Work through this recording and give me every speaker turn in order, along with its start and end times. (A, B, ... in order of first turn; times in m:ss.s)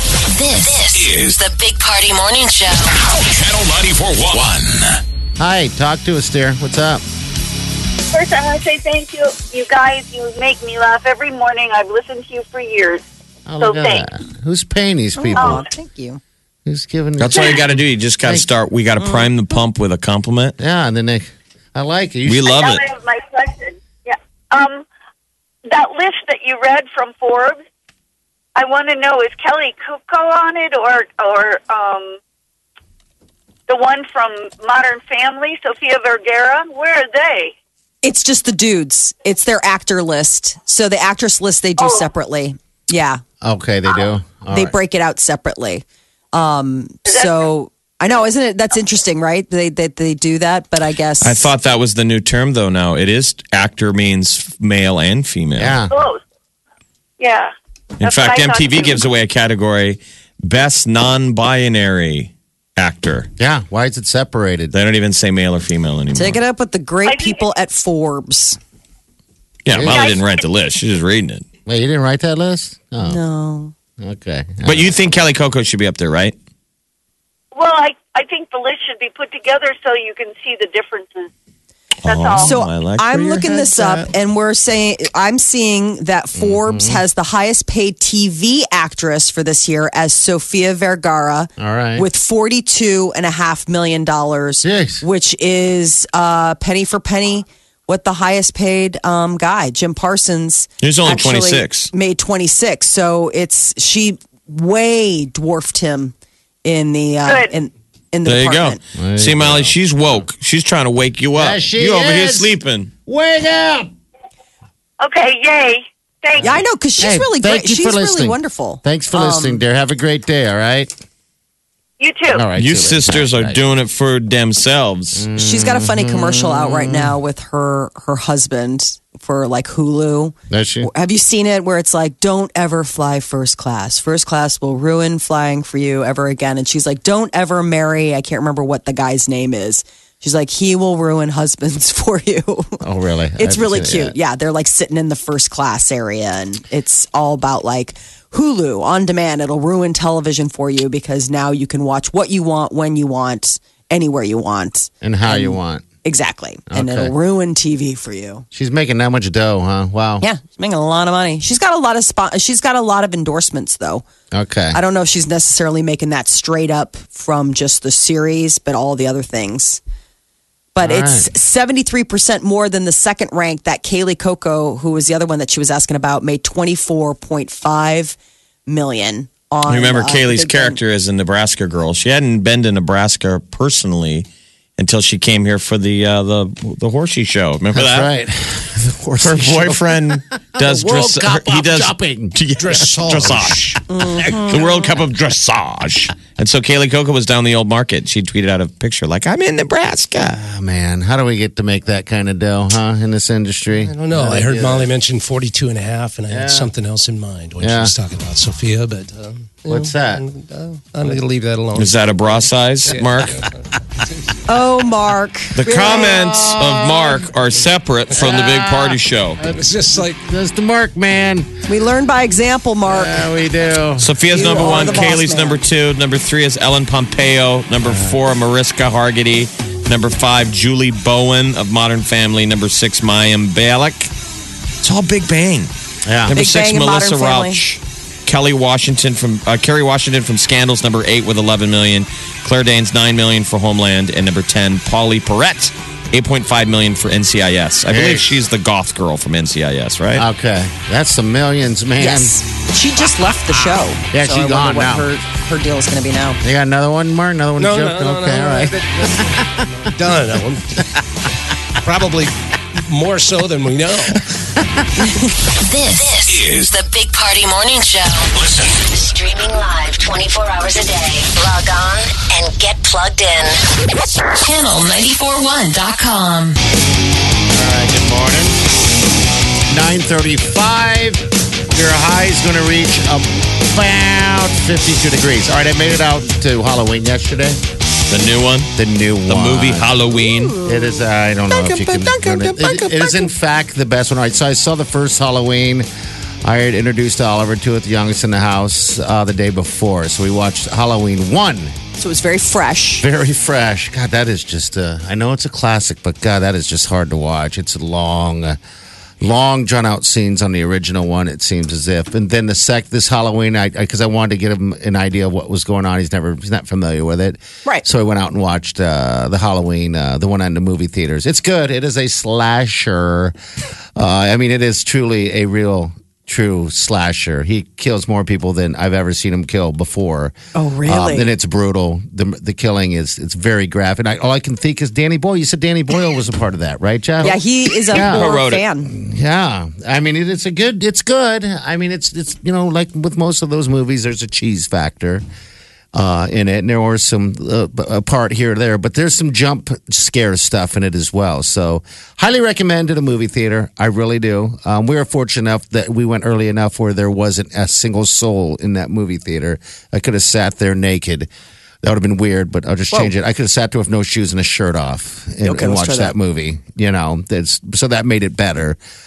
0:00.3-0:02.9 A
0:01.0-0:01.3 B
0:03.2-0:04.9 B
0:05.4-0:07.0 C
0:08.1-0:13.0 D
0:13.5-0:15.6 C
0:13.6-0:14.1 D
0:15.2-0:16.2 E
0:15.4-0:15.6 D
0:16.7-0:18.5 C
0:17.2-0:20.6 F
0:19.0-0:19.3 E
0:20.6-0:22.5 C
0:22.3-0:22.9 F
0:22.5-0:24.8 D
0:25.7-0:27.6 D
0:28.6-0:32.2 D
0:33.7-0:37.5 D
0:38.0-0:43.2 E
0:41.8-0:42.1 D
0:43.4-0:44.8 C
0:44.5-0:51.5 E
0:47.1-0:47.4 D
0:51.2-0:55.8 F
0:55.6-0:56.0 C
0:55.9-0:56.2 D
0:57.2-0:59.0 D
0:58.0-1:03.3 F
1:03.4-1:04.8 C
1:04.7-1:06.4 F
1:06.1-1:08.6 E
1:07.0-1:07.4 D
1:09.7-1:11.4 F
1:09.7-1:10.2 C
1:09.9-1:10.3 D
1:11.7-1:13.2 C
1:13.0-1:13.7 E
1:14.0-1:15.2 C
1:14.6-1:16.4 F
1:17.5-1:21.3 D
1:22.0-1:23.5 F
1:22.0-1:22.6 D
1:22.4-1:48.8 E
1:23.2-1:24.1 C
1:26.4-1:27.0 C
1:31.6-1:32.1 C
1:34.6-1:35.0 C
1:40.8-1:41.9 F
1:47.3-1:47.5 D
1:48.2-1:52.9 F
1:49.0-1:49.8 C
1:51.4-1:53.9 C
1:55.0-1:56.6 D
1:56.4-2:00.9 C
1:56.4-1:59.6 E
2:02.0-2:02.4 D
2:02.3-2:03.6 C
2:02.6-2:05.2 F
2:05.2-2:07.1 C
2:05.4-2:22.8 E
2:10.5-2:10.9 C
2:22.8-2:24.2 C
2:23.4-2:38.4 E
2:35.0-2:35.8 C
2:36.7-2:37.1 C
2:38.5-2:40.2 C
2:40.2-2:44.0 E
2:44.3-2:44.8 C
2:44.7-2:49.8 E
2:50.8-2:58.2 E
2:50.8-2:51.3 C
2:58.7-3:00.8 E
2:59.7-3:08.1 F
3:07.7-3:09.9 C
3:09.2-3:20.4 F
3:10.5-3:13.0 C
3:12.6-3:13.7 G
3:13.9-3:14.8 E
3:20.2-3:24.9 C
3:23.7-3:34.2 G
3:26.3-3:26.7 C
3:27.6-3:28.0 C
3:29.6-3:30.2 C
3:31.8-3:33.4 F
3:34.5-3:36.3 E
3:35.6-3:39.4 F
3:35.8-3:37.3 C
3:38.1-3:41.5 C
3:39.4-3:40.2 G
3:41.7-3:43.3 E
3:42.9-3:45.2 C
3:44.0-3:54.1 F
3:44.3-3:45.6 E
3:47.8-3:48.2 C
3:54.8-3:55.7 F
3:56.1-3:56.4 C
3:56.2-4:10.3 F
3:56.3-3:57.6 E
4:07.9-4:08.3 C
4:10.1-4:12.4 C
4:12.0-4:16.4 E
4:14.1-4:15.1 C
4:16.4-4:19.9 C
4:17.6-4:20.9 G
4:21.8-4:24.2 G
4:25.6-4:28.3 A
4:26.3-4:26.7 B
4:28.4-4:28.7 B
4:28.8-4:33.6 A
4:34.4-4:36.6 A
4:37.5-4:38.6 C
4:39.7-4:47.6 C
4:48.1-4:48.7 F
4:48.8-4:49.9 C
4:49.3-4:50.6 F
4:50.6-4:55.9 C
4:51.6-4:53.1 G
4:51.7-4:52.3 E
4:56.4-5:01.7 C
5:02.0-5:03.1 E
5:03.0-5:08.6 C
5:09.2-5:23.3 C
5:24.0-5:30.4 C
5:30.6-5:31.3 E
5:30.9-5:37.4 C
5:37.2-5:38.9 E
5:37.9-5:38.3 C
5:37.9-5:38.7 F
5:38.9-5:45.2 C
5:45.9-6:01.3 C
6:01.8-6:08.8 C
6:05.4-6:06.2 E